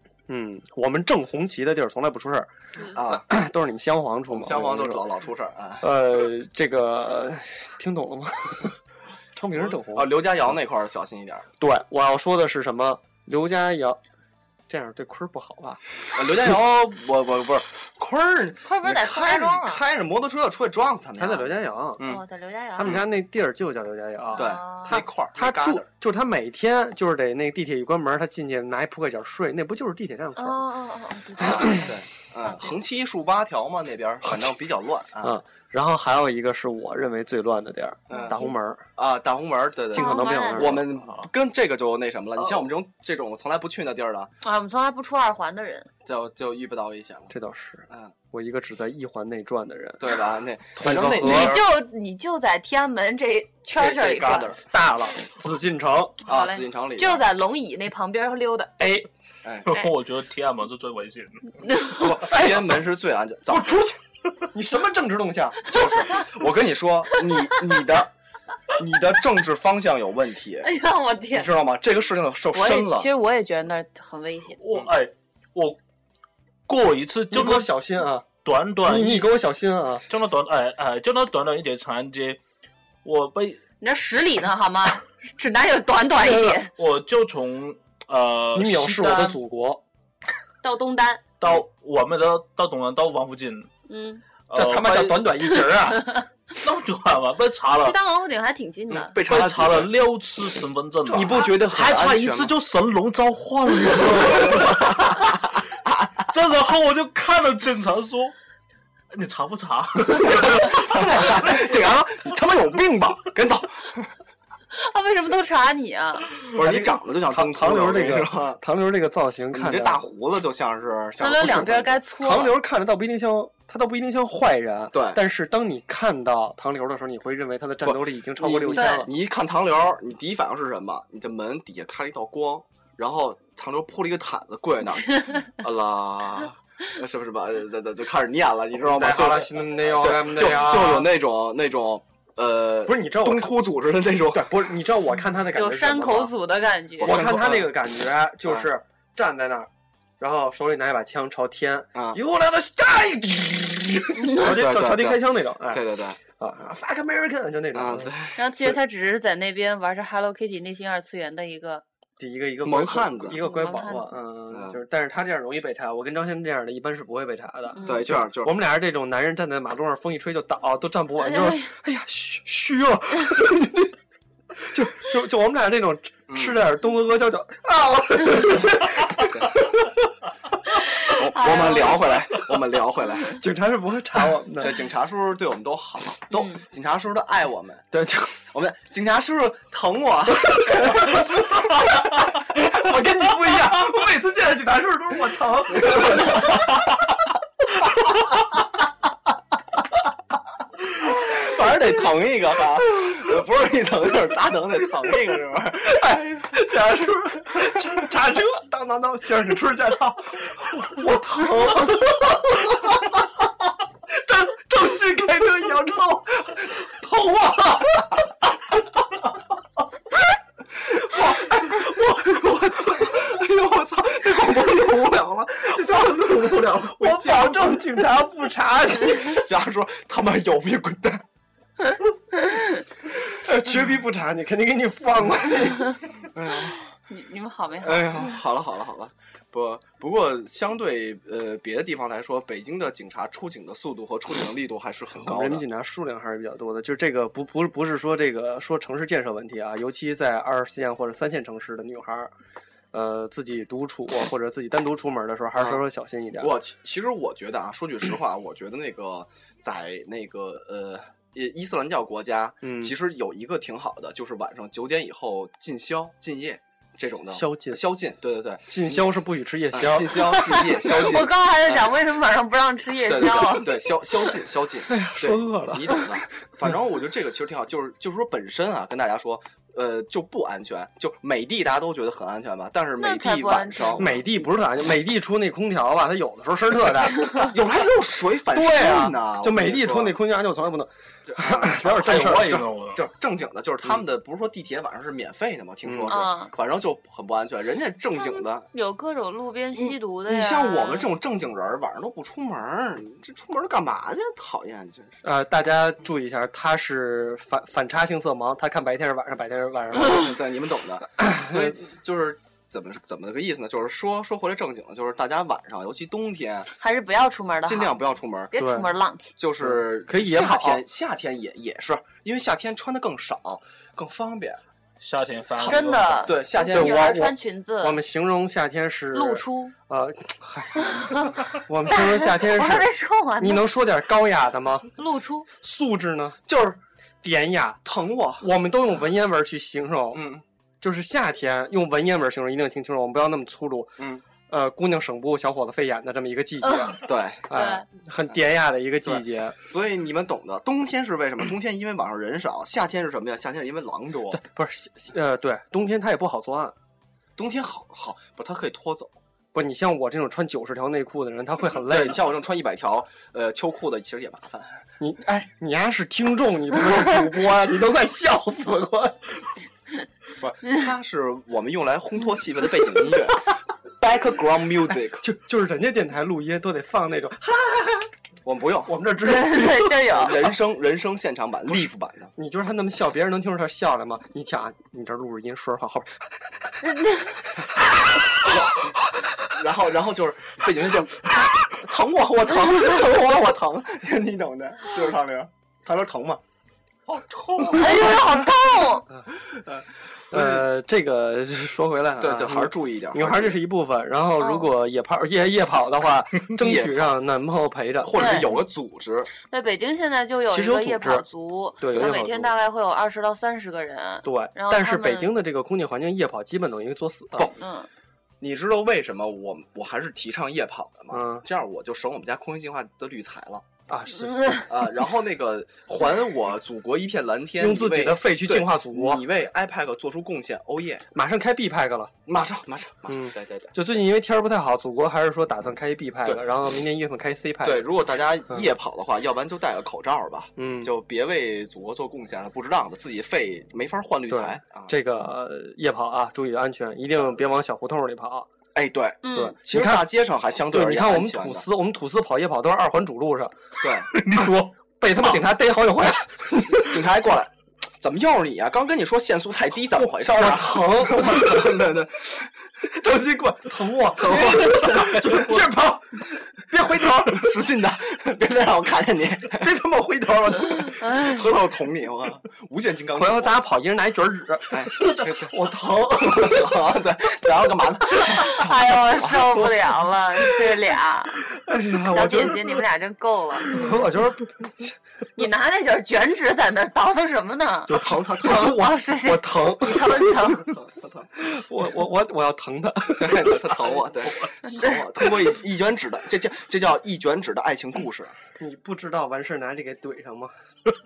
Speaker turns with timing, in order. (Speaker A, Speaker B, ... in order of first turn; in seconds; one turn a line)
Speaker A: 0.3-2.5
Speaker B: 2.9-3.2
Speaker A: 3.0-5.0
Speaker B: 4.3-5.9
Speaker A: 5.8-8.8
Speaker A: 9.3-10.1
Speaker B: 9.9-11.5
Speaker A: 11.6-14.0
Speaker A: 14.7-15.8
Speaker B: 16.1-22.2
Speaker C: 18.6-19.8
Speaker A: 21.2-22.1
Speaker C: 22.0-23.0
Speaker A: 22.8-30.6
Speaker B: 22.8-23.1
Speaker C: 24.3-25.0
Speaker B: 24.4-25.9
Speaker C: 30.4-32.8
Speaker B: 31.4-35.4
Speaker A: 35.2-38.8
Speaker B: 38.1-38.4
Speaker C: 38.1-38.5
Speaker B: 39.0-44.3
Speaker A: 39.9-41.1
Speaker C: 39.9-40.8
Speaker C: 44.4-45.9
Speaker B: 46.0-47.3
Speaker A: 47.3-50.1
Speaker B: 50.0-51.7
Speaker A: 50.8-51.6
Speaker C: 51.2-54.6
Speaker B: 53.8-54.6
Speaker A: 54.7-56.2
Speaker B: 56.3-57.3
Speaker C: 56.3-58.7
Speaker A: 58.8-59.1
Speaker B: 59.4-59.7
Speaker D: 59.6-61.6
Speaker C: 61.7-62.0
Speaker B: 62.0-63.8
Speaker A: 63.5-65.9
Speaker B: 65.7-68.1
Speaker B: 68.7-70.7
Speaker C: 70.6-71.5
Speaker B: 71.3-73.1
Speaker C: 72.5-74.6
Speaker D: 74.6-75.8
Speaker D: 76.7-77.7
Speaker A: 77.3-78.3
Speaker D: 78.4-79.4
Speaker A: 78.8-80.1
Speaker D: 80.1-82.4
Speaker D: 83.0-83.6
Speaker C: 83.8-86.7
Speaker A: 86.2-86.6
Speaker D: 86.8-89.4
Speaker A: 88.5-89.8
Speaker C: 90.6-91.2
Speaker D: 91.4-93.7
Speaker C: 93.9-94.2
Speaker D: 94.5-95.4
Speaker A: 94.5-96.2
Speaker C: 95.8-96.2
Speaker D: 96.6-98.0
Speaker C: 97.7-99.2
Speaker B: 98.9-99.9
Speaker D: 99.2-105.5
Speaker B: 101.1-102.6
Speaker B: 104.2-105.0
Speaker B: 105.8-106.1
Speaker D: 106.2-108.3
Speaker D: 109.1-111.4
Speaker B: 110.1-114.1
Speaker C: 114.7-116.3
Speaker B: 116.5-118.6
Speaker A: 116.6-120.0
Speaker B: 119.5-122.0
Speaker C: 121.2-122.6
Speaker A: 122.2-129.1
Speaker B: 124.9-125.2
Speaker B: 127.8-144.7
Speaker C: 128.7-129.1
Speaker A: 138.7-141.1
Speaker A: 142.9-143.5
Speaker A: 144.3-146.3
Speaker C: 145.5-147.2
Speaker B: 147.0-147.7
Speaker A: 147.0-158.1
Speaker B: 151.9-152.2
Speaker B: 154.3-156.2
Speaker B: 157.7-158.8
Speaker C: 158.4-161.8
Speaker A: 162.2-173.9
Speaker B: 162.6-163.4
Speaker C: 163.4-164.2
Speaker B: 164.5-164.8
Speaker C: 167.7-168.1
Speaker B: 167.8-168.5
Speaker C: 171.2-171.7
Speaker A: 174.7-179.6
Speaker B: 176.3-176.6
Speaker C: 181.1-182.3
Speaker B: 181.1-183.4
Speaker A: 183.4-184.8
Speaker B: 184.6-187.9
Speaker A: 187.9-188.4
Speaker B: 188.5-191.2
Speaker A: 190.8-191.3
Speaker A: 192.5-196.5
Speaker B: 195.8-196.6
Speaker B: 200.8-206.8
Speaker A: 206.0-213.2
Speaker A: 214.1-218.2
Speaker B: 220.8-228.0
Speaker A: 225.7-229.4
Speaker B: 229.2-231.2
Speaker A: 233.3-236.0
Speaker B: 236.2-236.9
Speaker C: 237.1-238.3
Speaker B: 237.8-245.6
Speaker A: 245.2-252.3
Speaker A: 252.9-256.6
Speaker B: 255.6-255.8
Speaker B: 256.4-269.1
Speaker A: 262.6-262.9
Speaker A: 267.3-267.8
Speaker A: 268.7-270.6
Speaker B: 269.7-271.9
Speaker C: 270.1-274.3
Speaker B: 273.1-284.2
Speaker A: 274.9-276.4
Speaker C: 283.0-284.2
Speaker A: 284.0-287.5
Speaker B: 287.5-290.2
Speaker A: 288.5-292.6
Speaker B: 291.2-298.7
Speaker D: 291.9-293.1
Speaker A: 295.9-296.1
Speaker C: 296.1-296.5
Speaker C: 298.7-301.1
Speaker B: 299.8-305.2
Speaker A: 305.2-310.3
Speaker B: 309.9-316.7
Speaker A: 311.2-311.8
Speaker C: 316.8-317.9
Speaker B: 317.6-318.5
Speaker C: 318.5-319.4
Speaker A: 318.6-318.9
Speaker B: 319.4-324.6
Speaker A: 319.6-320.8
Speaker D: 325.0-326.4
Speaker B: 325.6-327.1
Speaker C: 325.6-328.0
Speaker A: 326.7-334.9
Speaker C: 329.1-329.7
Speaker C: 330.8-331.3
Speaker C: 331.9-333.7
Speaker C: 335.0-335.5
Speaker A: 335.6-336.4
Speaker B: 336.5-336.8
Speaker A: 337.2-337.8
Speaker B: 337.9-338.5
Speaker A: 338.4-340.2
Speaker B: 340.1-340.4
Speaker A: 340.8-349.6
Speaker B: 344.0-344.2
Speaker C: 346.6-347.0
Speaker B: 347.0-347.5
Speaker C: 347.5-347.8
Speaker B: 349.0-354.4
Speaker A: 354.3-356.8
Speaker B: 357.4-359.1
Speaker A: 359.5-362.2
Speaker B: 361.8-364.8
Speaker A: 365.0-369.3
Speaker B: 370.4-375.3
Speaker A: 375.2-377.4
Speaker B: 378.4-378.9
Speaker A: 378.9-379.9
Speaker C: 379.2-380.4
Speaker B: 380.0-382.3
Speaker A: 382.4-386.3
Speaker C: 386.8-387.4
Speaker B: 388.5-388.8
Speaker B: 389.5-396.4
Speaker B: 397.3-398.1
Speaker C: 397.7-399.1
Speaker B: 399.4-400.7
Speaker A: 400.3-408.4
Speaker B: 402.2-403.6
Speaker C: 404.4-404.7
Speaker B: 406.6-407.1
Speaker B: 408.0-409.3
Speaker C: 408.1-408.5
Speaker C: 409.4-415.4
Speaker A: 410.5-411.2
Speaker A: 411.8-412.5
Speaker B: 411.9-412.4
Speaker A: 414.2-417.5
Speaker C: 417.6-417.9
Speaker B: 418.4-423.6
Speaker A: 421.1-421.5
Speaker A: 423.9-424.7
Speaker C: 424.4-424.6
Speaker B: 424.7-431.1
Speaker A: 427.6-429.2
Speaker A: 431.1-432.1
Speaker B: 432.3-433.7
Speaker A: 433.1-437.9
Speaker B: 437.6-444.9
Speaker A: 440.6-440.9
Speaker A: 444.3-448.5
Speaker B: 448.8-451.6
Speaker C: 449.2-449.6
Speaker A: 449.3-450.1
Speaker A: 450.7-453.6
Speaker B: 453.8-454.1
Speaker D: 454.1-454.7
Speaker A: 455.0-457.0
Speaker B: 456.7-462.5
Speaker A: 460.0-461.8
Speaker A: 463.0-467.5
Speaker B: 464.1-465.6
Speaker B: 466.8-469.7
Speaker A: 469.6-471.0
Speaker B: 470.9-473.5
Speaker C: 471.0-471.5
Speaker A: 473.1-476.6
Speaker B: 474.7-479.6
Speaker C: 478.3-481.4
Speaker A: 481.5-482.7
Speaker C: 482.1-483.8
Speaker A: 483.7-484.9
Speaker C: 485.4-487.9
Speaker B: 487.9-488.8
Speaker A: 487.9-490.4
Speaker C: 488.4-490.7
Speaker B: 490.6-491.3
Speaker A: 491.4-493.9
Speaker B: 493.2-498.4
Speaker C: 494.6-495.1
Speaker A: 498.6-500.5